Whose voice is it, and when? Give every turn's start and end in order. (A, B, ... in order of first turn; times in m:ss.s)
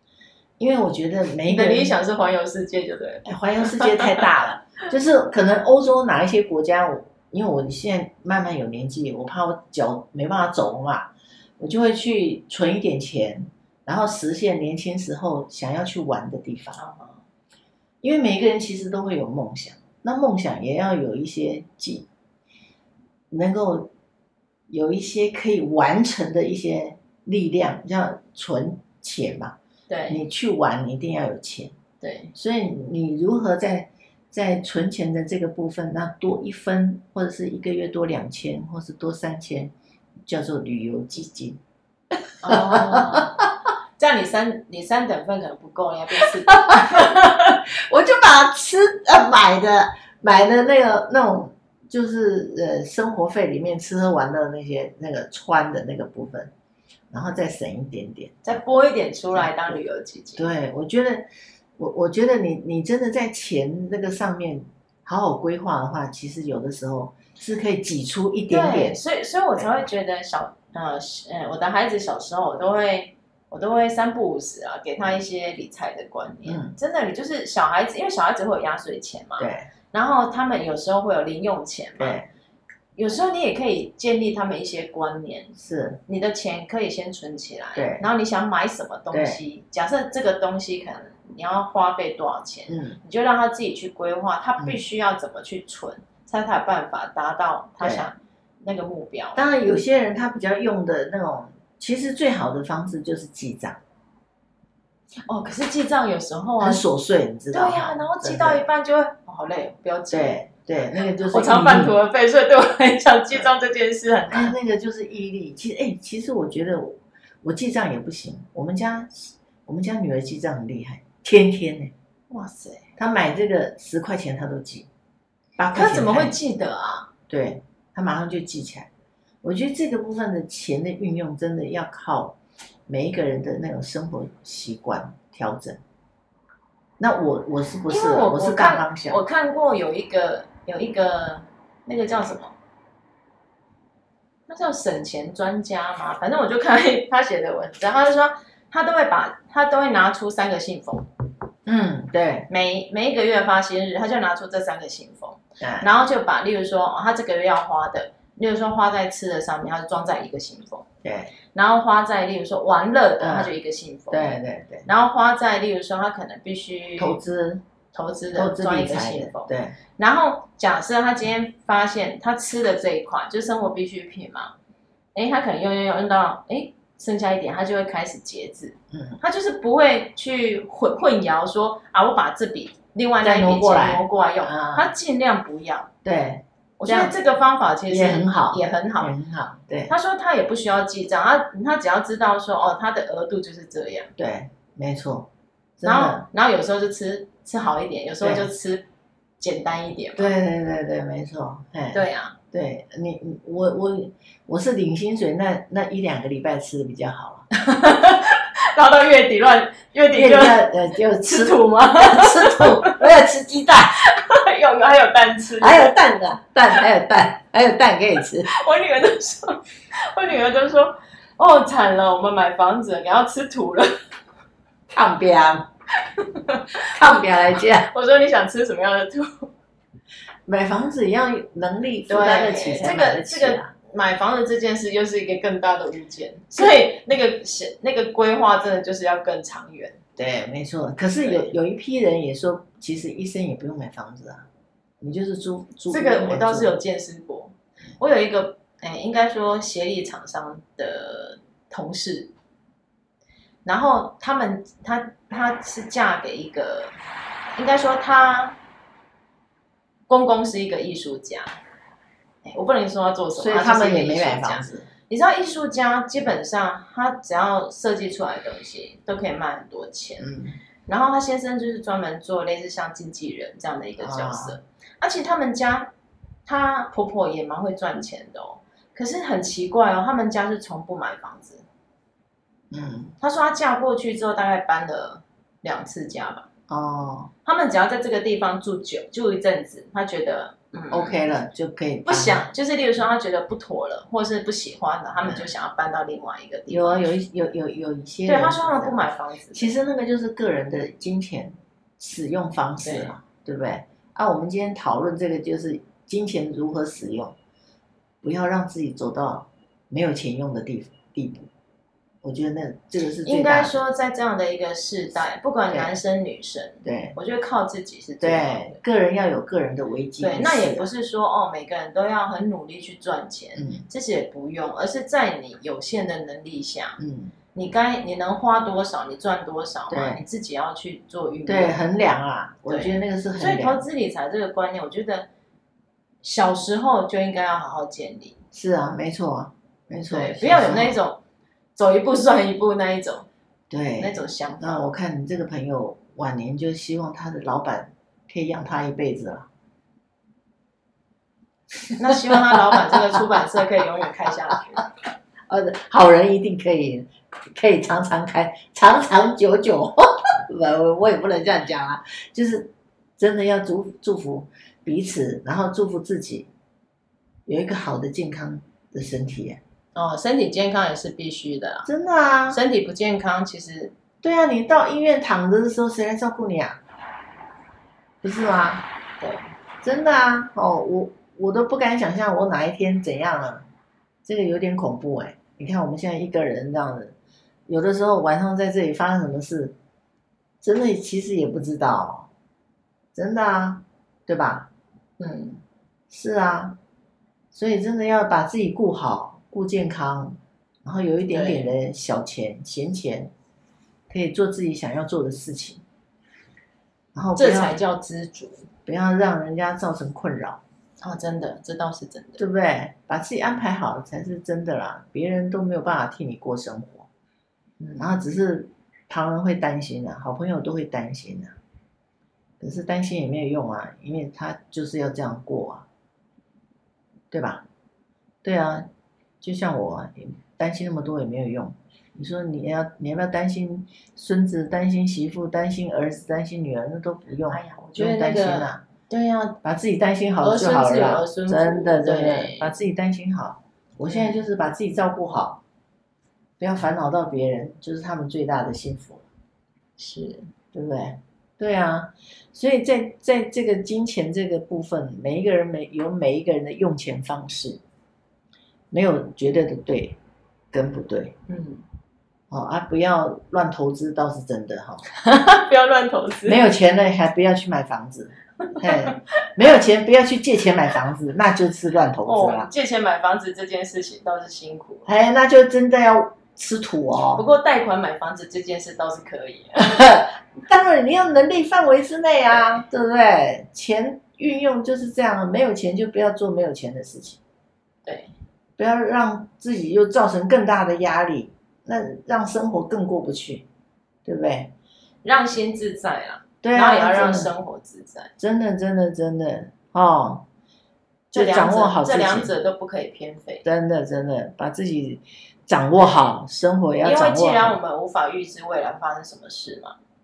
0:00.6-0:01.9 A
0:01.5-0:04.2 B
0:03.2-0:16.8 A
0:16.8-0:17.2 B
0:18.0-0:22.1 A
0:23.3-0:23.9 A
0:24.7-0:29.6 A
0:29.9-0:30.2 B
0:30.1-0:31.7 A
0:32.0-0:32.3 B
0:32.3-0:39.7 A
0:40.2-0:41.6 A
0:42.1-0:43.5 A
0:42.4-0:43.4 B
0:44.0-0:47.6 B
0:46.2-0:47.1 A
0:47.7-0:56.5 A
0:57.1-0:58.6 A
0:58.4-1:00.5 B
0:59.3-0:59.7 A
1:00.4-1:09.0 A
1:08.5-1:22.2 B
1:16.4-1:16.7 A
1:19.4-1:19.7 A
1:22.0-1:22.3 A
1:23.0-1:25.5 B
1:25.5-1:26.0 A
1:26.1-1:39.5 B
1:27.8-1:28.0 A
1:29.1-1:29.4 A
1:32.7-1:33.0 A
1:37.8-1:38.1 A
1:39.4-1:43.8 A
1:45.3-1:46.8 B
1:46.6-1:48.6 A
1:47.5-1:50.4 B
1:50.1-1:52.0 A
1:51.2-1:54.5 B
1:54.3-2:01.9 A
2:02.3-2:02.9 B
2:03.0-2:04.9 A
2:05.6-2:06.3 A
2:05.7-2:07.1 B
2:07.3-2:08.9 A
2:09.4-2:15.8 A
2:17.0-2:19.2 A
2:17.9-2:22.5 B
2:24.5-2:31.1 B
2:31.6-2:32.5 A
2:32.5-2:40.8 B
2:35.6-2:35.9 A
2:41.0-2:41.3 A
2:41.5-2:47.2 B
2:43.2-2:43.5 A
2:44.1-2:44.9 A
2:47.0-2:47.6 A
2:47.9-2:54.5 B
2:48.3-2:49.8 A
2:55.1-3:05.9 B
2:58.9-2:59.2 A
3:03.2-3:04.9 A
3:06.0-3:07.1 A
3:06.8-3:09.1 B
3:07.9-3:09.9 A
3:09.9-3:14.1 B
3:14.2-3:16.2 A
3:15.8-3:18.8 B
3:18.2-3:18.5 A
3:19.4-3:20.3 B
3:20.2-3:27.5 A
3:21.9-3:22.4 B
3:27.5-3:30.6 B
3:30.1-3:34.0 A
3:31.2-3:33.0 B
3:34.0-3:36.0 B
3:35.6-3:38.5 A
3:38.5-3:43.9 B
3:44.9-3:45.7 A
3:46.2-3:47.2 B
3:46.7-3:47.9 A
3:47.8-3:49.5 B
3:50.5-3:53.7 A
3:52.1-4:00.0 B
4:00.2-4:04.5 A
4:01.2-4:01.5 B
4:05.0-4:06.8 A
4:05.9-4:12.3 B
4:13.6-4:17.0 B
4:17.6-4:18.6 B
4:20.1-4:21.6 B
4:22.4-4:30.3 B
4:23.4-4:24.9 A
4:30.2-4:30.6 A
4:30.8-4:35.9 B
4:34.0-4:34.6 A
4:36.4-4:41.6 B
4:42.7-4:43.1 A
4:43.2-4:46.5 B
4:46.7-4:47.3 A
4:47.4-4:51.2 B
4:50.9-4:52.5 A
4:52.0-4:57.1 B
4:55.2-4:55.5 A
4:56.7-4:59.0 A
4:58.2-4:59.7 B
4:59.5-5:07.3 A
5:02.8-5:03.1 B
5:08.2-5:11.5 A
5:12.2-5:13.8 A
5:13.2-5:18.8 B
5:16.8-5:17.2 A
5:18.2-5:20.9 A
5:20.2-5:27.0 B
5:23.6-5:23.8 A
5:27.0-5:27.3 A
5:27.5-5:31.8 B
5:29.9-5:30.2 A
5:31.5-5:33.8 A
5:32.7-5:35.3 B
5:36.2-5:38.4 B
5:38.5-5:41.0 A
5:40.1-5:41.2 B
5:41.8-5:43.3 B
5:43.7-5:49.5 A
5:44.0-5:44.9 B
5:51.9-5:54.8 B
5:52.3-5:53.4 A
5:55.5-6:06.5 A
6:07.4-6:09.6 A
6:09.9-6:11.9 B
6:11.8-6:12.6 A
6:12.5-6:13.9 B
6:14.2-6:16.8 A
6:18.2-6:18.9 A
6:19.2-6:19.5 B
6:19.8-6:23.6 A
6:24.2-6:27.1 A
6:27.7-6:29.7 A
6:30.6-6:32.3 A
6:33.1-6:34.7 A
6:35.2-6:35.6 B
6:36.1-6:36.8 A
6:37.5-6:43.3 A
6:41.3-6:41.7 B
6:44.1-6:45.8 A
6:47.1-6:47.8 A
6:47.4-6:48.7 B
6:48.8-6:50.6 A
6:51.0-6:52.4 B
6:52.4-6:57.1 A
6:57.8-6:58.1 B
6:58.0-7:01.6 A
7:02.6-7:05.8 A
7:07.3-7:07.6 A
7:08.4-7:08.9 A
7:09.4-7:18.8 A
7:17.5-7:19.6 B
7:19.6-7:25.6 A
7:20.4-7:22.7 B
7:24.0-7:24.4 B
7:26.6-7:29.2 A
7:30.0-7:30.5 B
7:30.7-7:37.8 A
7:38.9-7:40.2 A
7:40.7-7:41.4 A
7:41.5-7:41.8 B
7:42.5-7:45.0 A
7:45.1-7:46.6 B
7:46.4-7:52.7 A
7:48.7-7:49.4 B
7:52.2-7:55.1 B
7:55.0-7:57.4 A
7:57.3-7:59.9 B
7:59.8-8:07.4 A
8:02.5-8:02.8 B
8:08.0-8:08.3 B
8:08.8-8:13.7 A
8:14.2-8:14.7 A
8:15.2-8:18.3 B
8:16.6-8:17.5 A
8:18.4-8:20.4 A
8:21.3-8:23.6 B
8:21.3-8:22.5 A
8:23.6-8:27.8 A
8:27.0-8:30.0 B